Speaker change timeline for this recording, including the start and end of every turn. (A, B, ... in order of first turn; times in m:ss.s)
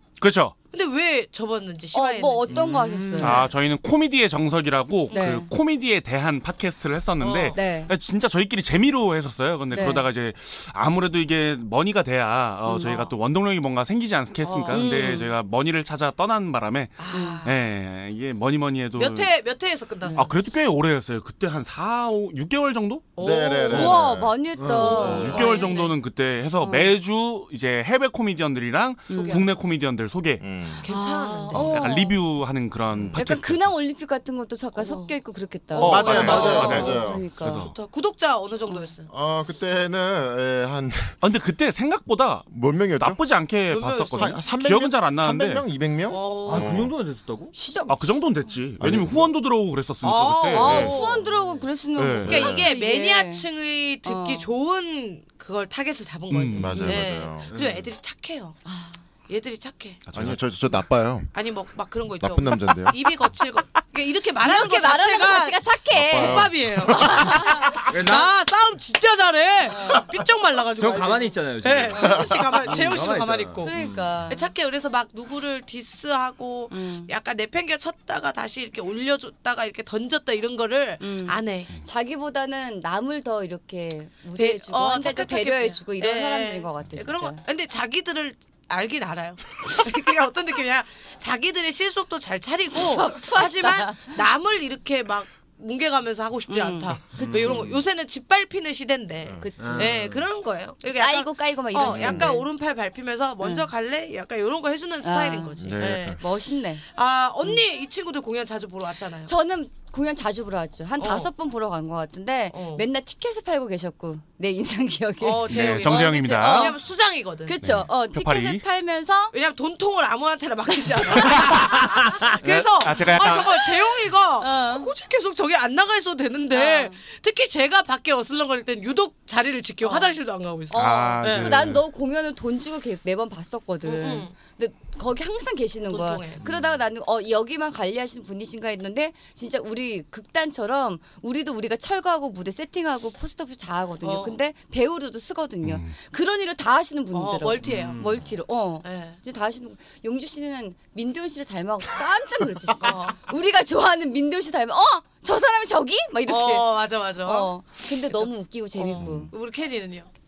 0:00.2-0:00.6 A
0:00.7-0:03.5 B
0:01.9-0:03.5 C
0:03.2-0:19.3 A
0:05.1-0:05.5 C
0:07.2-0:07.6 B
0:07.5-0:07.9 C
0:09.7-0:10.1 C
0:12.6-0:13.0 C
0:12.8-0:13.1 B
0:14.4-0:15.2 B
0:14.7-0:15.3 C
0:17.0-0:17.6 B
0:17.1-0:17.4 C
0:19.0-0:20.3 B
0:20.0-0:20.3 C
0:20.2-0:23.1 A
0:23.2-0:24.0 B
0:23.2-0:25.5 D
0:23.7-0:25.6 C
0:24.6-0:25.3 E
0:24.8-0:25.9 B
0:25.0-0:30.4 A
0:26.6-0:26.9 C
0:29.1-0:29.4 C
0:29.1-0:29.5 B
0:30.4-0:30.8 D
0:30.8-0:31.8 B
0:30.8-0:32.2 C
0:31.5-0:33.7 A
0:32.9-0:33.2 D
0:33.2-0:37.7 C
0:34.8-0:35.2 B
0:35.7-0:39.1 B
0:35.8-0:37.7 A
0:35.8-0:37.2 D
0:39.1-0:41.2 D
0:41.2-0:45.6 A
0:42.5-0:43.2 D
0:43.7-0:44.4 B
0:44.2-0:46.9 D
0:46.1-0:46.8 B
0:46.5-0:47.5 E
0:47.5-0:48.2 C
0:47.9-0:51.0 A
0:48.8-0:49.3 D
0:50.0-0:51.3 B
0:50.5-0:53.5 C
0:51.3-0:51.6 E
0:52.0-0:52.4 A
0:52.2-0:52.7 D
0:52.3-0:58.6 B
0:54.0-0:54.5 C
0:56.3-0:56.9 A
0:56.5-0:57.5 D
0:57.4-0:57.9 E
0:58.6-0:59.0 C
0:59.3-1:00.0 B
1:00.0-1:00.4 A
1:00.1-1:01.3 D
1:01.3-1:13.7 B
1:02.2-1:03.0 D
1:04.4-1:07.7 C
1:05.9-1:07.3 D
1:07.9-1:08.3 E
1:09.7-1:10.1 C
1:10.8-1:14.0 E
1:11.9-1:12.2 C
1:12.2-1:12.5 D
1:13.6-1:14.5 C
1:14.3-1:21.7 B
1:16.7-1:17.1 C
1:21.0-1:27.4 C
1:24.4-1:46.2 B
1:32.8-1:34.2 C
1:36.5-1:37.8 C
1:37.2-1:37.7 E
1:39.2-1:39.5 D
1:39.4-1:40.0 C
1:39.6-1:40.3 E
1:40.9-1:42.5 C
1:41.9-1:42.3 E
1:43.4-1:43.7 C
1:45.0-1:46.8 C
1:45.6-1:46.2 D
1:46.9-1:49.3 B
1:49.3-1:56.8 C
1:51.0-1:51.3 B
1:52.5-1:52.8 B
1:55.2-1:57.6 B
1:55.5-1:56.8 A
1:57.4-1:59.4 C
1:57.6-1:58.6 A
1:59.3-2:11.6 B
2:00.7-2:01.3 C
2:01.2-2:03.6 A
2:04.4-2:04.9 C
2:06.5-2:07.0 C
2:09.8-2:10.2 C
2:10.7-2:39.3 C
2:10.7-2:11.8 A
2:13.8-2:14.3 B
2:15.9-2:16.4 B
2:24.0-2:24.4 B
2:25.6-2:25.9 A
2:27.1-2:28.0 B
2:27.6-2:28.3 E
2:28.8-2:29.2 B
2:32.8-2:33.2 B
2:36.3-2:37.5 B
2:38.1-2:40.1 B
2:39.0-2:39.3 D